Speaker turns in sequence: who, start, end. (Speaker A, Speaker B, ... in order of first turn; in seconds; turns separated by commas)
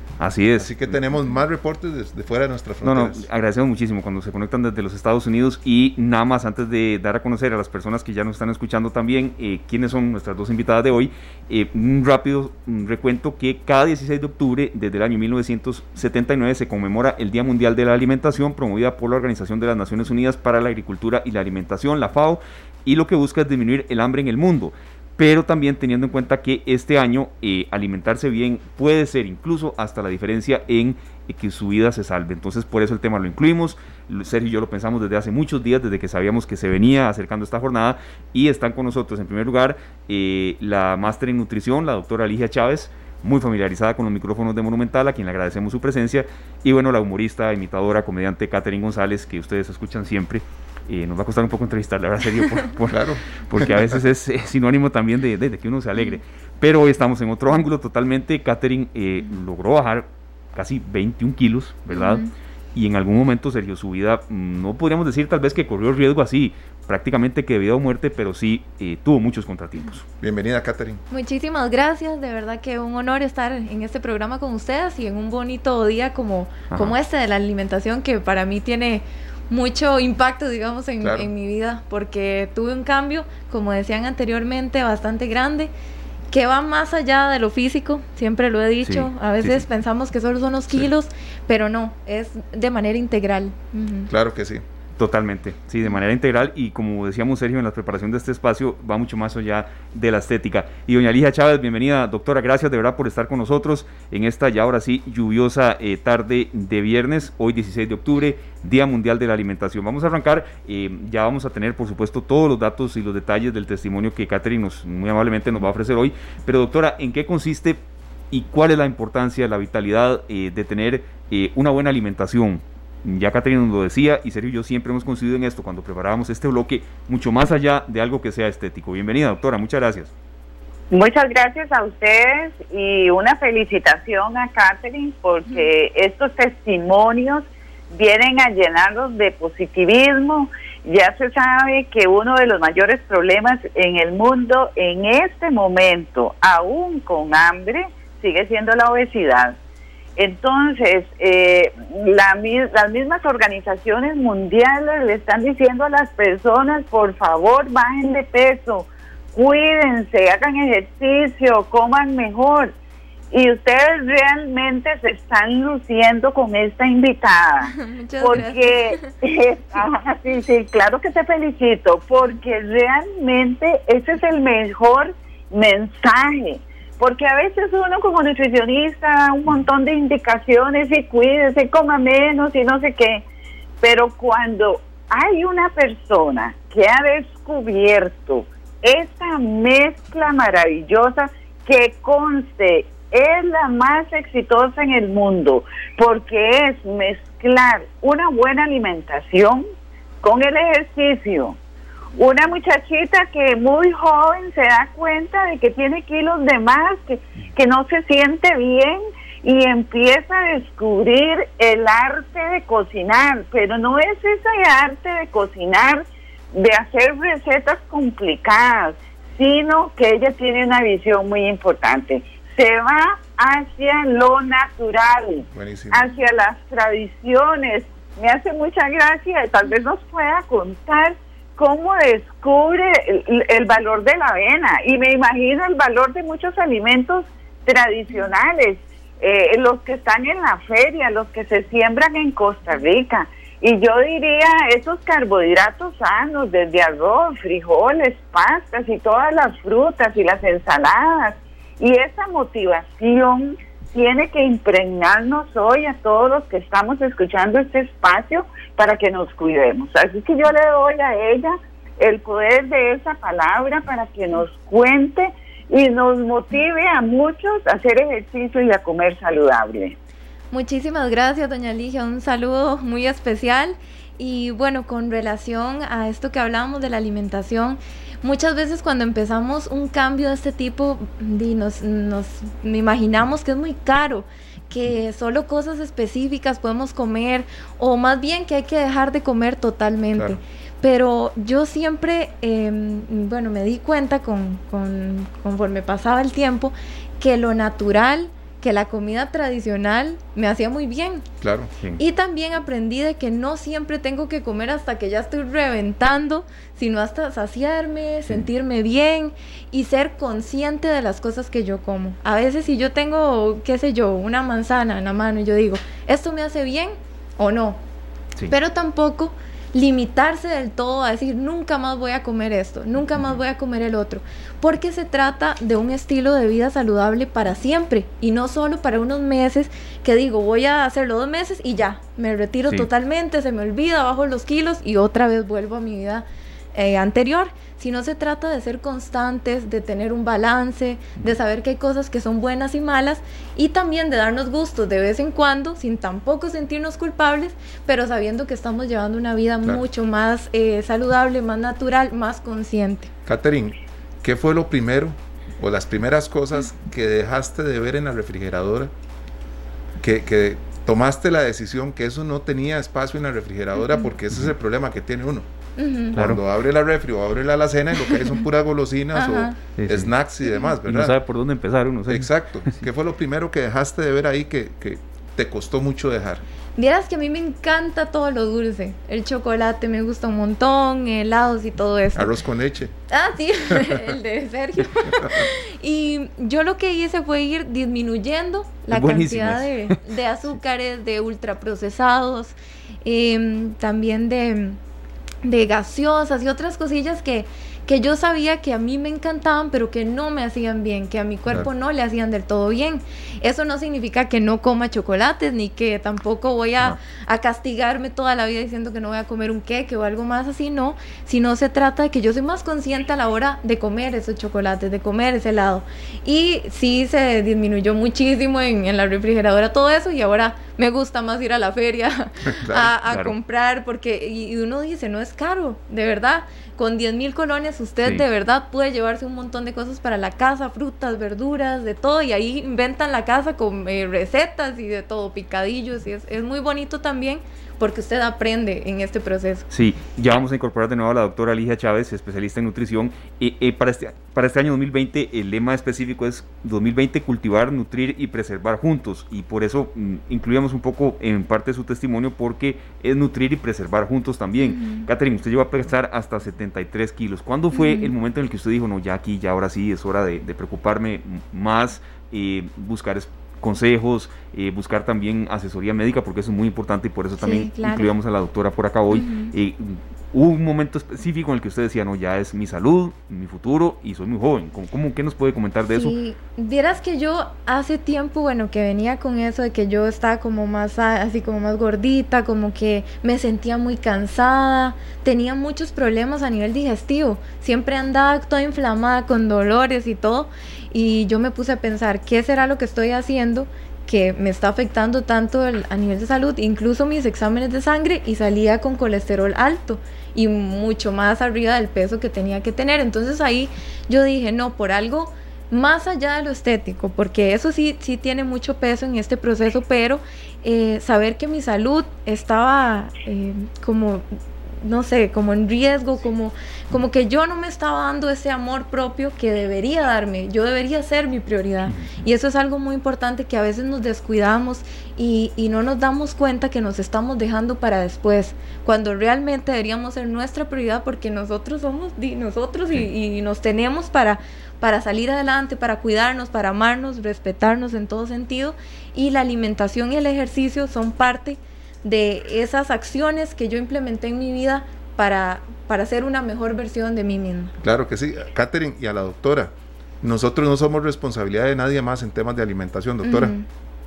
Speaker A: 0.2-0.9, Speaker B: 0.6-3.2, Speaker A: 2.8-62.2, Speaker B: 52.9-54.0, Speaker C: 61.9-62.3, Speaker A: 62.7-70.0, Speaker B: 70.2-71.0, Speaker C: 71.1-85.7, Speaker B: 81.0-81.3, Speaker C: 86.3-94.1, Speaker A: 88.8-89.6, Speaker B: 94.1-94.6, Speaker A: 95.0-117.8, Speaker A: 118.3-130.1, Speaker D: 130.9-149.6, Speaker D: 150.2-162.7, Speaker D: 163.3-183.2, Speaker C: 167.7-169.1, Speaker D: 183.8-199.6, Speaker D: 200.2-201.6, Speaker D: 202.2-269.9, Speaker B: 225.5-226.1, Speaker C: 270.5-301.2, Speaker B: 301.4-301.7, Speaker C: 302.0-317.8, Speaker C: 318.5-353.1, Speaker B: 353.2-358.9, Speaker B: 360.0-365.5, Speaker C: 365.8-366.1, Speaker B: 366.1-371.1, Speaker A: 366.1-366.4, Speaker C: 368.1-368.3, Speaker C: 369.1-369.5, Speaker A: 369.8-370.1, Speaker C: 370.4-370.7, Speaker A: 370.8-372.8, Speaker B: 372.1-376.4, Speaker C: 376.8-382.3, Speaker B: 382.1-382.9, Speaker C: 383.1-394.8, Speaker B: 383.7-384.1, Speaker B: 385.2-385.4, Speaker A: 388.9-390.0, Speaker C: 395.4-439.6, Speaker B: 422.6-422.9, Speaker A: 423.1-423.4, Speaker A: 439.7-476.1, Speaker C: 454.6-455.1, Speaker C: 457.7-458.1, Speaker C: 467.4-468.1, Speaker C: 469.1-469.5, Speaker C: 475.9-514.2, Speaker C: 514.8-547.7, Speaker A: 521.9-522.1, Speaker B: 547.8-553.5, Speaker C: 553.2-553.6